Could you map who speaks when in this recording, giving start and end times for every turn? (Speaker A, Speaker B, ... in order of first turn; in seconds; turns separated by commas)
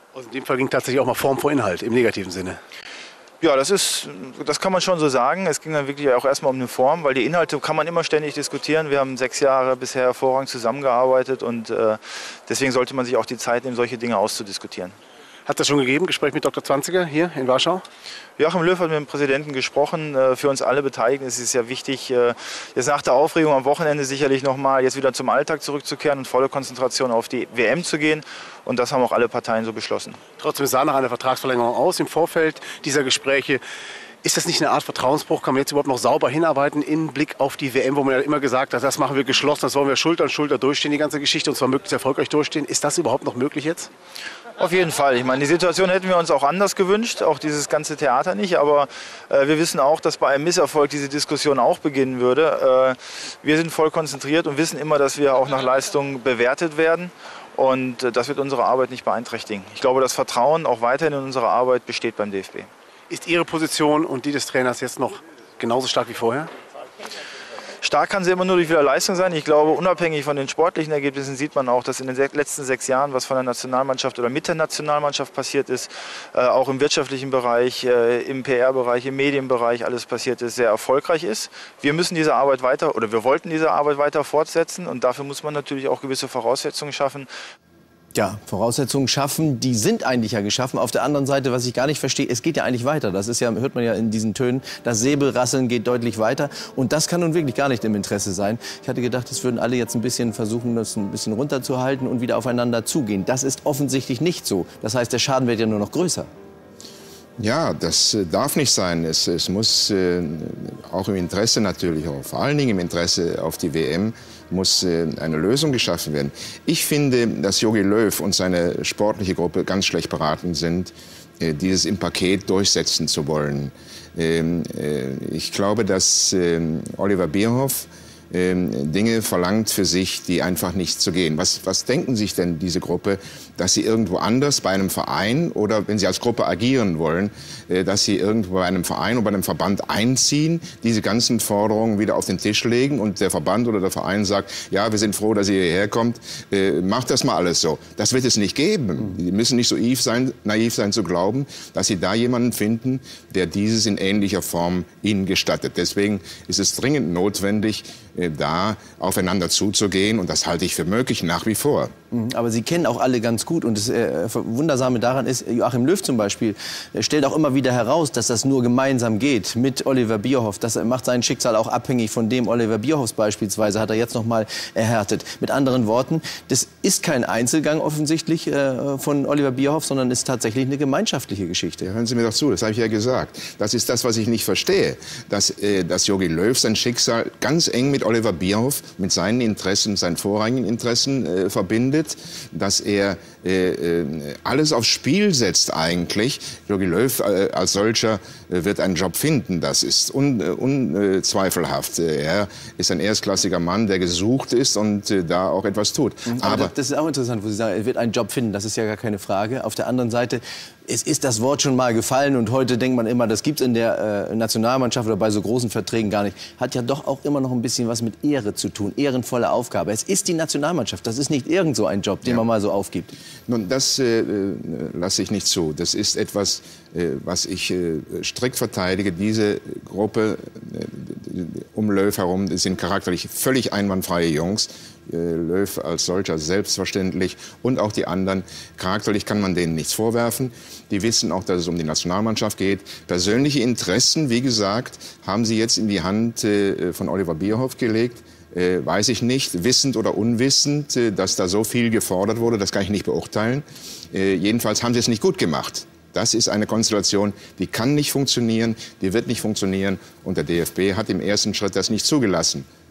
Speaker A: 0.1-2.6, Speaker B: 3.4-14.9, Speaker A: 15.4-17.8, Speaker B: 18.4-30.2, Speaker A: 30.4-33.6, Speaker A: 34.2-43.9, Speaker B: 44.6-62.7, Speaker A: 63.1-66.5, Speaker B: 67.8-87.3, Speaker C: 88.1-106.3, Speaker D: 107.4-161.9, Speaker C: 162.1-181.8, Speaker D: 181.8-206.7, Speaker C: 206.2-223.1, Speaker D: 223.5-262.6